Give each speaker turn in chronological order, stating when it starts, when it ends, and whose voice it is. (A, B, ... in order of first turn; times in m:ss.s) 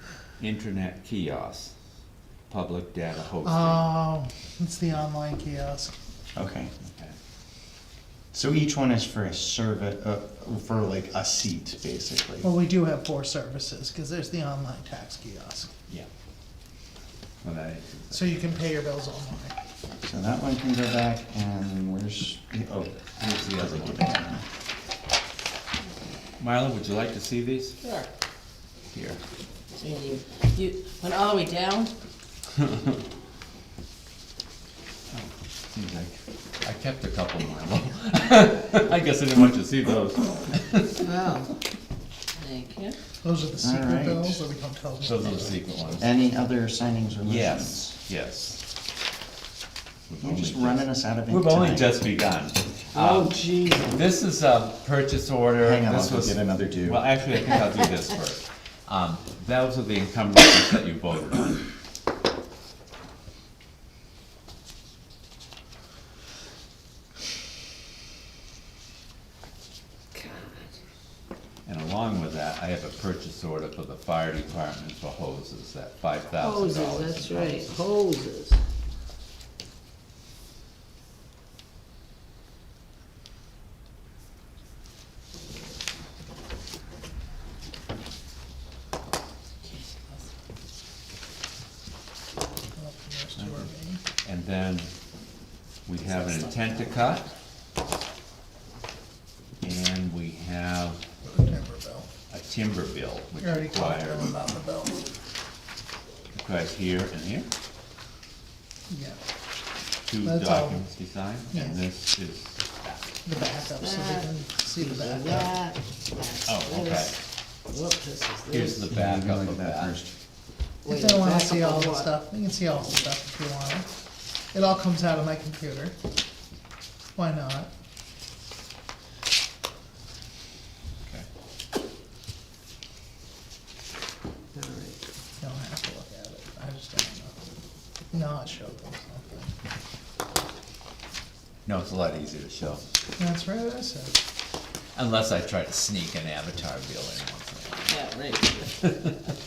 0:00.4-0:01.7 A
0:02.5-0:03.9 A
0:03.4-0:06.0 B
0:06.4-0:06.7 C
0:08.3-0:12.5 C
0:12.4-0:15.7 B
0:17.4-0:18.4 A
0:18.1-0:19.5 B
0:20.0-0:24.4 C
0:23.2-0:24.1 A
0:26.4-0:27.8 A
0:27.8-0:28.1 D
0:28.9-0:29.2 A
0:29.7-0:31.9 D
0:35.1-0:41.0 A
0:41.0-0:41.5 D
0:42.4-0:43.0 D
0:43.2-0:45.6 B
0:43.6-0:44.4 C
0:45.0-0:46.1 A
0:46.0-0:48.0 C
0:47.2-0:48.6 A
0:50.1-1:01.7 A
0:50.2-0:52.0 C
0:52.9-0:54.0 D
0:55.6-0:57.0 C
1:10.1-1:10.7 D
1:11.6-1:17.8 A
1:16.4-1:18.6 D
1:32.8-1:34.0 B
1:34.2-1:34.9 A
1:35.9-1:37.3 A
1:39.6-1:41.0 A
1:41.2-1:42.1 B
1:42.3-1:44.3 A
1:43.4-1:45.1 B
1:46.3-1:47.5 A
1:48.9-1:49.2 B
1:50.0-1:53.0 A
1:50.2-1:50.8 B
1:51.5-1:51.8 B
1:53.2-1:55.6 B
1:53.7-1:58.9 D
1:56.5-1:57.2 A
1:58.5-2:00.0 A
1:59.0-2:00.1 C
2:00.8-2:02.1 D
2:00.9-2:03.9 B
2:04.5-2:06.0 B
2:07.2-2:07.7 B
2:14.5-2:15.0 D
2:15.4-2:17.4 B
2:18.1-2:19.5 B
2:21.6-2:22.8 A
2:23.2-2:24.2 B
2:25.0-2:28.0 A
2:27.9-2:28.9 D